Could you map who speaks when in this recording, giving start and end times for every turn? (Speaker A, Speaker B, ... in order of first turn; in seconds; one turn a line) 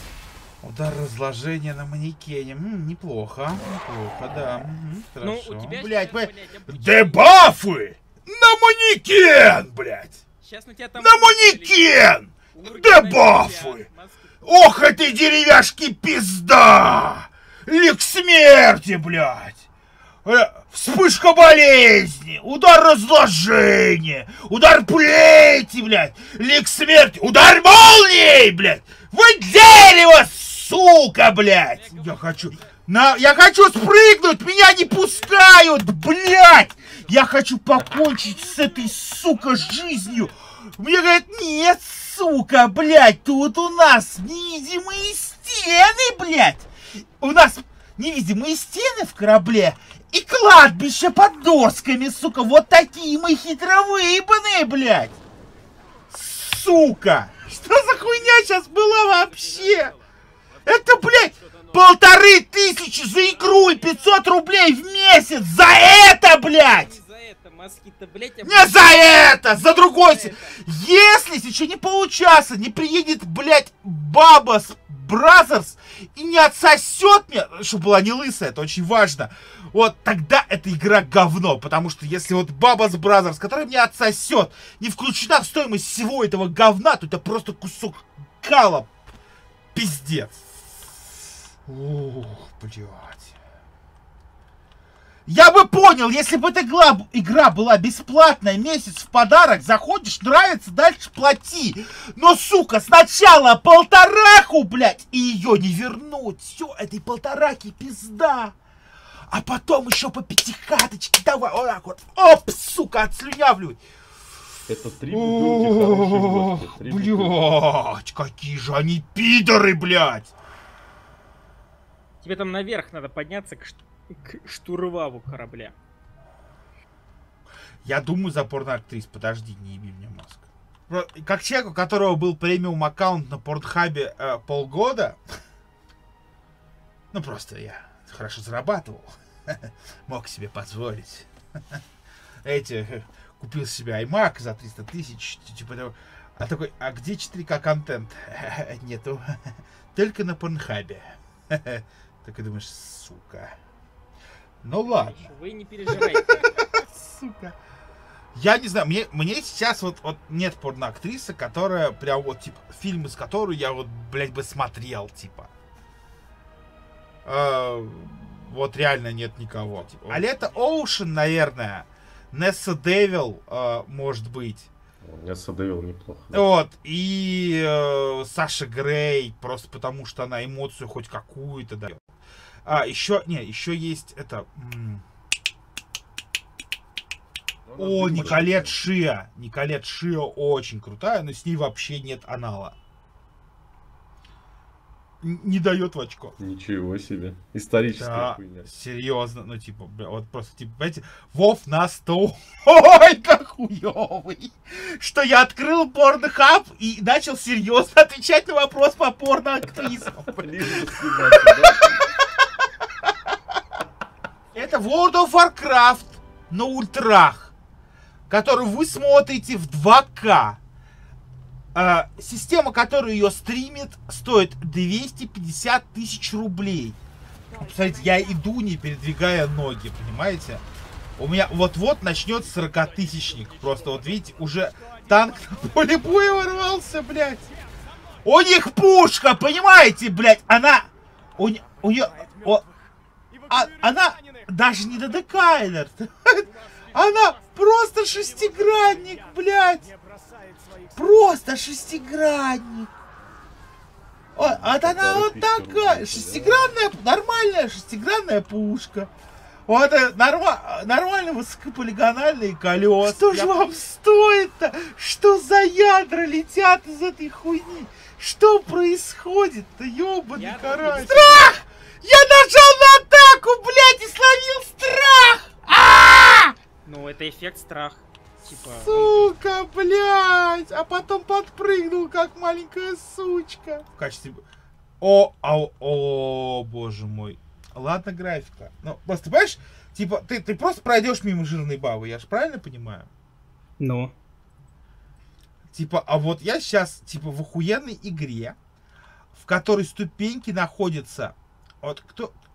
Speaker A: 0.6-10.2
Speaker B: 5.2-7.5
Speaker B: 10.4-14.5
Speaker A: 10.9-13.9
Speaker A: 14.4-19.6
Speaker A: 20.2-55.2
Speaker B: 31.6-32.7
Speaker B: 35.0-35.5
Speaker B: 36.7-37.2
Speaker B: 38.2-38.9
Speaker B: 39.5-40.3
Speaker A: 56.1-59.9
Speaker A: 60.6-67.0
Speaker B: 63.3-64.1
Speaker B: 66.6-70.6
Speaker A: 68.4-88.9
Speaker A: 89.7-93.3
Speaker A: 95.2-108.5
Speaker A: 109.3-113.8
Speaker C: 114.7-117.3
Speaker A: 115.1-120.3
Speaker B: 122.2-125.7
Speaker A: 127.8-135.2
Speaker A: 137.1-141.8
Speaker A: 142.4-149.4
Speaker A: 149.9-153.5
Speaker A: 154.6-155.3
Speaker B: 154.8-156.4
Speaker A: 155.9-157.6
Speaker A: 158.3-165.5
Speaker A: 167.2-174.7
Speaker B: 169.8-170.6
Speaker C: 175.0-176.4
Speaker A: 176.3-182.0
Speaker A: 182.6-185.0
Speaker C: 187.7-188.7
Speaker A: 187.8-192.7
Speaker A: 195.2-196.4
Speaker C: 196.4-198.7
Speaker A: 197.9-212.0
Speaker C: 210.4-212.0
Speaker A: 214.5-217.5
Speaker A: 218.3-220.6
Speaker A: 221.7-227.0
Speaker A: 227.6-230.6
Speaker A: 231.2-237.5
Speaker A: 238.2-242.6
Speaker A: 243.5-249.9
Speaker A: 250.9-252.9
Speaker A: 254.3-259.1
Speaker C: 254.4-256.8
Speaker A: 259.7-276.5
Speaker B: 263.1-263.7
Speaker B: 270.3-271.6
Speaker B: 276.8-279.3
Speaker A: 278.4-284.4
Speaker A: 285.0-293.1
Speaker B: 293.8-294.1
Speaker A: 295.7-298.6
Speaker A: 299.3-302.3